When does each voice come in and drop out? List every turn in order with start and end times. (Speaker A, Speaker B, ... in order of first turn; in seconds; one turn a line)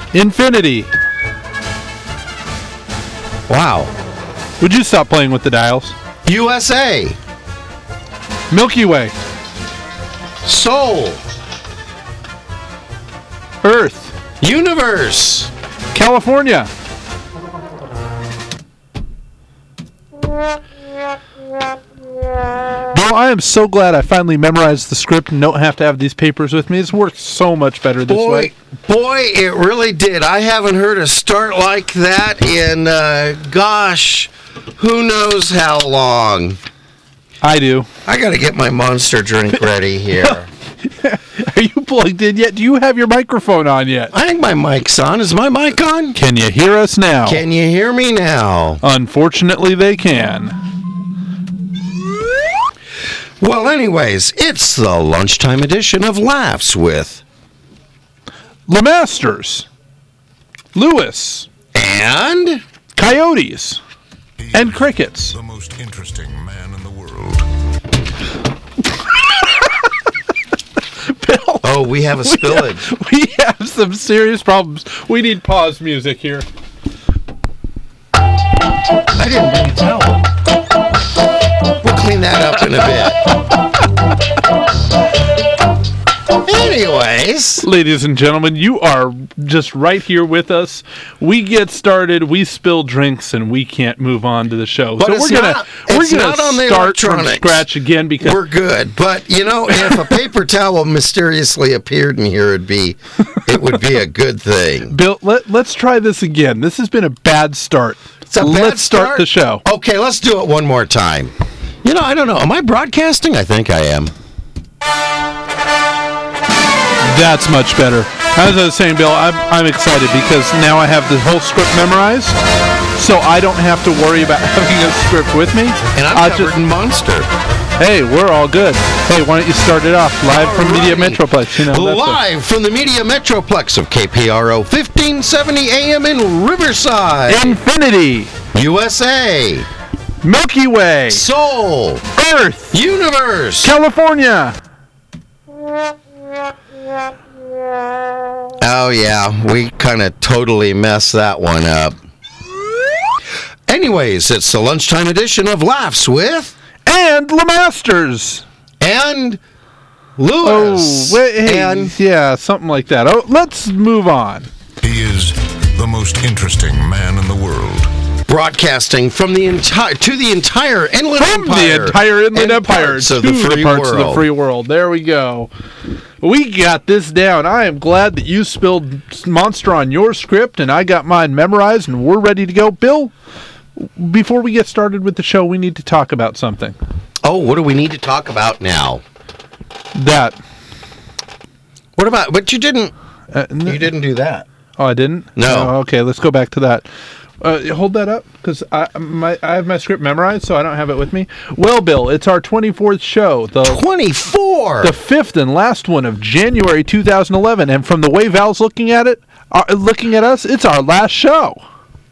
Speaker A: 0.1-0.9
Speaker B: 3.5-3.9
Speaker A: 4.6-5.9
Speaker B: 6.2-7.2
Speaker A: 8.5-9.1
Speaker B: 10.4-11.2
Speaker A: 13.6-14.1
Speaker B: 14.4-15.5
Speaker A: 15.9-16.7
Speaker A: 22.9-28.5
Speaker B: 28.1-36.6
Speaker A: 37.4-37.9
Speaker B: 38.0-40.5
Speaker A: 40.8-44.1
Speaker B: 44.1-46.1
Speaker A: 46.1-47.4
Speaker B: 47.2-48.8
Speaker A: 48.8-50.5
Speaker B: 53.4-57.2
Speaker A: 58.7-59.7
Speaker A: 60.7-61.5
Speaker B: 61.7-62.6
Speaker A: 63.0-63.8
Speaker C: 64.4-67.5
Speaker A: 64.5-65.3
Speaker A: 71.0-71.7
Speaker B: 71.6-72.8
Speaker A: 72.2-76.5
Speaker B: 79.2-80.2
Speaker B: 81.8-83.2
Speaker B: 86.4-87.7
Speaker A: 87.6-98.4
Speaker B: 95.0-97.7
Speaker B: 98.2-104.9
Speaker A: 104.9-109.6
Speaker B: 108.3-114.1
Speaker A: 117.0-122.4
Speaker A: 122.9-126.5
Speaker B: 125.9-127.3
Speaker A: 127.8-132.2
Speaker B: 130.2-137.6
Speaker A: 137.3-138.3
Speaker B: 138.5-139.7
Speaker A: 140.2-141.2
Speaker B: 141.1-142.0
Speaker A: 142.1-142.7
Speaker B: 142.7-143.7
Speaker A: 143.6-144.6
Speaker B: 148.6-151.9
Speaker B: 153.7-156.5
Speaker A: 156.8-158.4
Speaker B: 158.8-159.4
Speaker B: 160.2-161.9
Speaker A: 160.4-164.5
Speaker C: 164.8-167.9
Speaker B: 168.3-174.2
Speaker A: 171.2-175.5
Speaker A: 176.2-183.1
Speaker A: 183.8-186.8
Speaker B: 187.2-189.0
Speaker A: 189.9-190.3
Speaker B: 191.9-192.9
Speaker A: 193.3-193.8
Speaker B: 193.7-194.4
Speaker A: 194.8-196.8
Speaker B: 195.3-195.7
Speaker A: 197.4-203.8
Speaker B: 203.6-204.9
Speaker A: 204.8-211.6